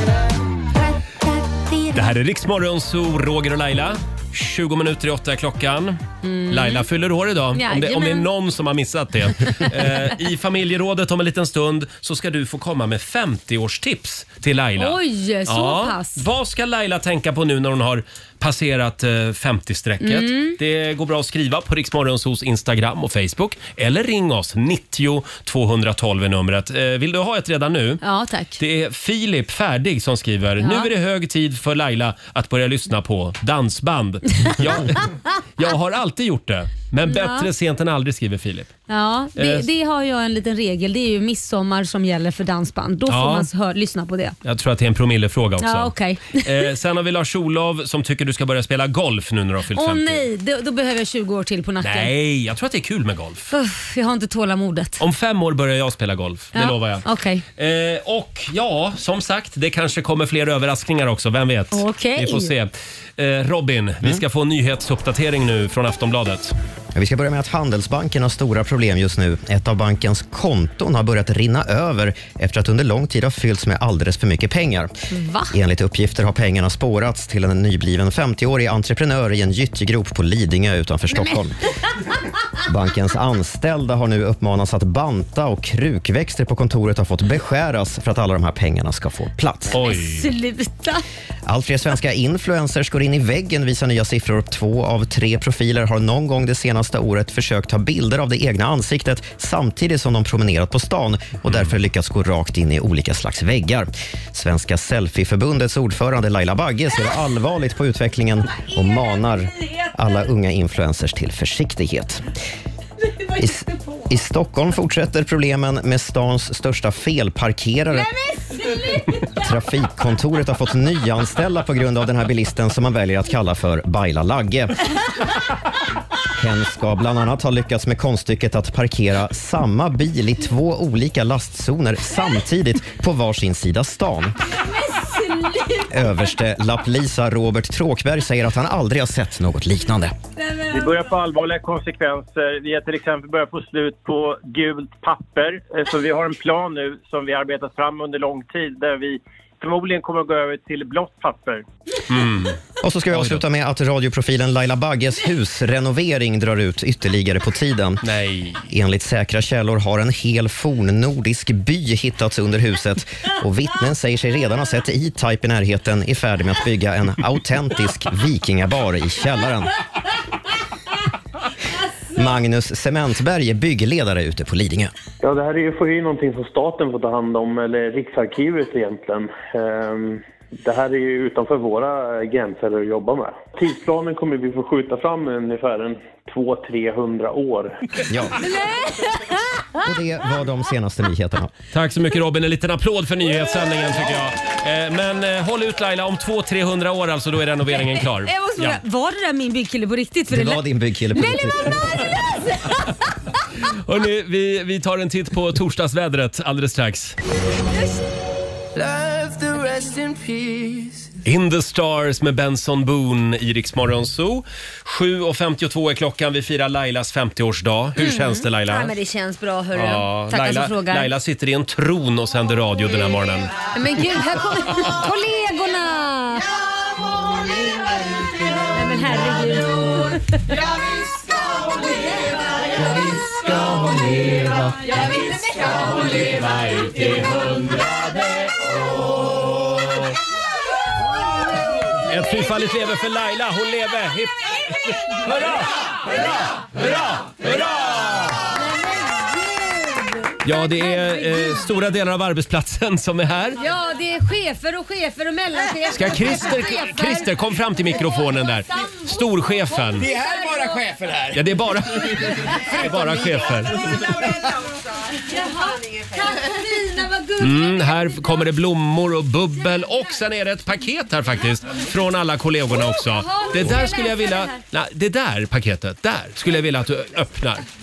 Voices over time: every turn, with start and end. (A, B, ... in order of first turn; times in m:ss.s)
0:00.8-0:02.1 A
0:01.9-0:28.0 B
0:06.2-0:06.8 A
0:07.5-0:08.3 A
0:14.8-0:16.2 A
0:20.0-0:20.6 A
0:28.0-0:28.6 A
0:28.6-0:38.7 B
0:30.6-0:30.9 A
0:37.0-0:37.5 A
0:38.9-0:44.4 A
0:39.4-0:39.7 B
0:43.1-0:43.5 B
0:44.4-0:50.2 B
0:45.6-0:46.4 A
0:49.7-0:52.1 A
0:51.8-0:53.5 B
0:53.5-0:55.0 A
0:55.0-1:06.5 B
0:56.5-0:57.4 A
1:01.7-1:02.5 A
1:06.9-1:14.9 C
1:15.1-1:15.5 A
1:15.5-1:21.6 C
1:21.1-1:21.4 A
1:22.6-1:29.8 C
1:29.7-1:30.3 B
1:29.8-1:31.0 A
1:31.4-1:52.2 C
1:48.6-1:50.0 A
1:53.2-1:54.1 A
1:53.4-1:58.1 C
1:57.9-1:59.4 A
1:59.2-2:04.8 C
2:06.3-2:14.4 C
2:14.4-2:16.2 A
2:15.9-2:20.1 C
2:20.4-2:21.1 A
2:20.7-2:31.6 D
2:32.1-2:32.6 B
2:32.8-2:38.0 C
2:33.1-2:33.4 B
2:38.0-2:38.6 B
2:38.6-2:49.7 C
2:52.1-2:54.9 C
2:55.2-3:07.7 E
3:08.1-3:08.4 C
3:08.4-3:09.6 A
3:09.8-3:11.5 C
3:11.7-3:18.8 B
3:18.0-3:22.8 A
3:20.3-3:22.0 C
3:23.7-3:27.2 B
3:28.7-3:31.1 F
3:31.2-3:38.9 B
3:38.0-3:41.1 A
3:39.7-3:43.5 B
3:43.7-3:46.5 A
3:48.7-3:50.4 A
3:50.6-3:52.3 F
3:54.9-3:55.3 A
4:02.0-4:08.5 B
4:08.5-4:11.6 A
4:10.4-4:13.6 B
4:13.6-4:17.3 A
4:15.9-4:20.1 B
4:17.8-4:20.8 A
4:20.0-4:24.3 G
4:21.3-4:24.0 B
4:25.2-4:28.5 A
4:27.4-4:37.6 B
4:32.7-4:34.6 A